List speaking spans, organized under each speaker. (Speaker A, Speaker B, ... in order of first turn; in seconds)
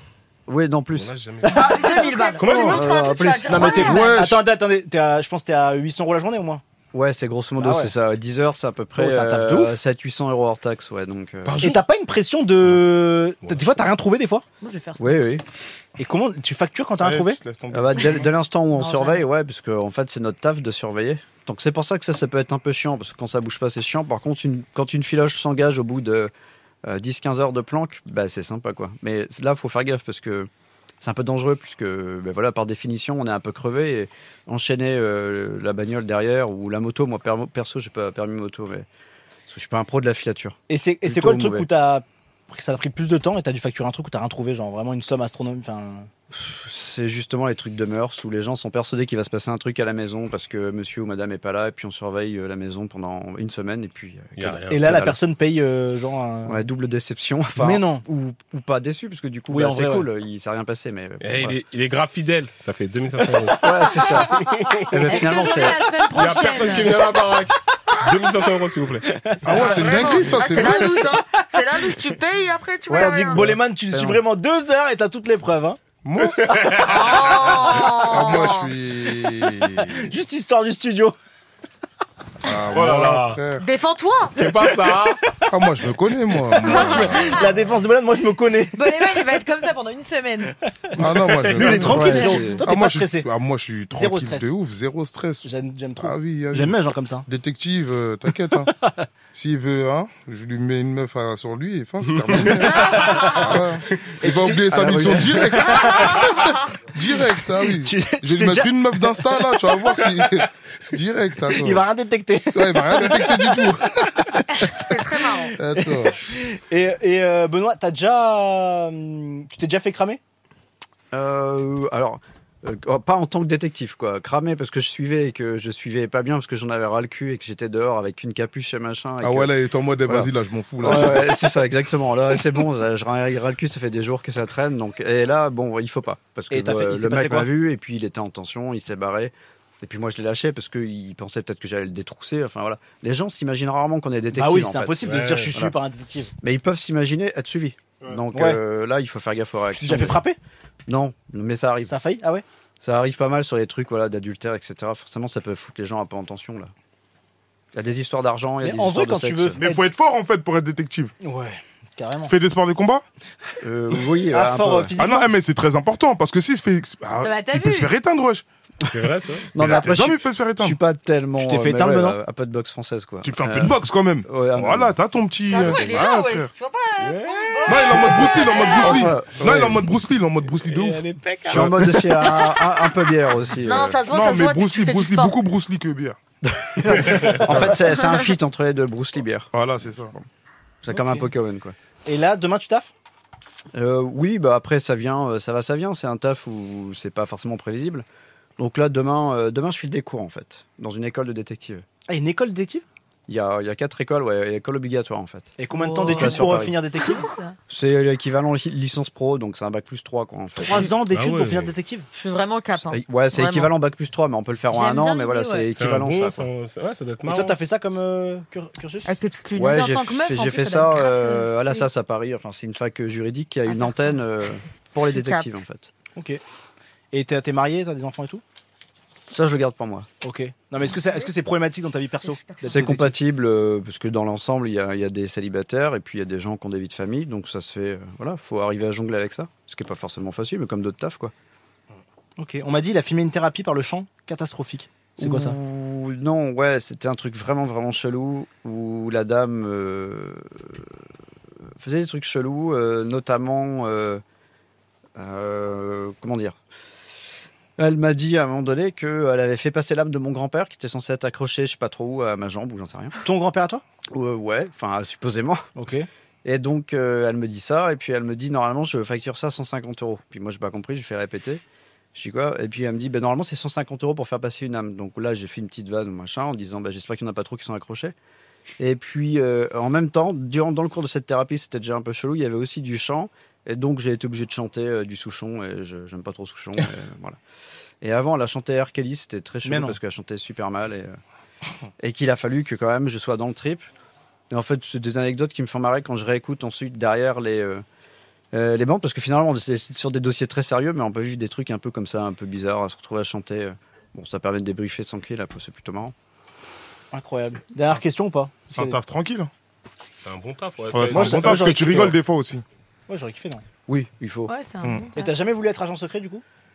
Speaker A: 0.5-1.1, 3.2-3.5, 6.9-11.7, 15.0-15.4, 17.7-26.3, 26.8-30.5, 31.0-38.9, 39.5-41.7, 46.3-55.2, 56.5-61.6, 63.5-65.9, 72.9-74.2, 91.6-92.6, 104.7-105.4, 121.1-129.5, 130.8-145.7, 146.4-150.2, 150.9-151.9, 152.8-156.7, 157.7-159.6, 163.6-164.9, 169.5-174.9, 178.8-179.8, 181.5-184.0, 186.4-189.5, 190.8-191.7, 193.7-198.0, 198.6-201.8, 203.3-205.6, 206.1-206.8, 207.7-210.9, 212.8-216.5, 219.5-225.9, 229.3-230.1, 232.6-241.3, 245.2-250.9, 251.8-254.2, 255.2-256.6, 257.8-263.2, 264.1-265.6, 266.4-271.6, 272.1-278.1, 278.8-287.4, 288.0-291.2, 292.0-293.9, 294.5-297.8, 298.5-306.1, 313.9-314.5
Speaker B: 0.9-1.8, 2.4-3.0, 13.4-13.8, 54.4-54.9, 61.2-63.7, 64.9-69.1, 76.4-77.5, 82.7-83.4, 84.3-85.2, 102.0-102.6, 145.0-145.5, 168.9-169.5, 175.6-175.8, 177.0-178.5, 180.6-181.9, 187.1-187.4, 211.1-211.7, 215.7-217.6, 310.2-312.1
Speaker C: 1.5-4.1, 69.5-73.4, 76.8-78.7, 83.5-84.4, 86.6-87.4, 102.6-103.6, 106.1-106.4, 114.7-115.5, 175.5-179.1, 183.6-185.4, 212.1-213.7, 219.1-219.9, 225.1-225.5, 230.9-231.3, 232.2-232.8
Speaker D: 1.5-2.4, 14.6-15.3, 18.7-19.3, 65.0-67.0, 88.7-90.5, 91.7-92.6, 167.2-167.9, 205.7-207.6, 214.7-215.8, 219.7-221.9, 223.7-224.2, 314.5-315.3
Speaker E: 1.5-3.0, 3.5-6.6, 7.6-7.9, 8.9-9.8, 11.6-14.4, 16.0-17.4, 40.7-46.1, 54.7-56.6, 57.6-58.0, 59.5-60.1, 64.0-64.8, 69.1-71.1, 72.9-75.8, 76.5-76.8, 79.9-81.1, 86.6-89.3, 90.9-93.3, 93.9-94.5, 95.4-97.2, 98.7-99.0, 102.3-103.6, 104.2-106.3, 107.7-109.8, 111.5-120.2, 136.5-137.5, 144.3-146.3, 148.3-148.6, 149.7-150.4, 151.8-152.4, 158.6-159.9, 161.2-162.3, 164.3-165.3, 171.4-172.2, 187.1-187.7, 190.9-191.3, 192.1-192.9, 202.1-202.8, 205.6-207.3, 210.6-212.1, 217.2-219.1, 226.2-226.4, 227.1-228.4, 230.2-233.1, 242.4-245.6, 263.2-263.8, 265.8-266.1, 289.6-290.0, 307.1-309.0, 311.1-312.1, 313.1-313.6, 315.1-316.4
Speaker F: 3.8-4.4, 17.0-18.3, 69.4-70.9, 76.0-80.0, 82.4-83.6, 85.5-87.3, 91.0-95.5, 96.0-98.7, 99.3-111.8, 112.5-114.4, 115.5-116.2, 129.2-131.3, 159.6-161.1, 162.3-163.0, 165.0-168.4, 169.6-170.8, 173.2-176.5, 177.7-181.8, 184.0-186.2, 189.5-190.1, 308.7-309.5, 310.9-312.6, 314.8-315.1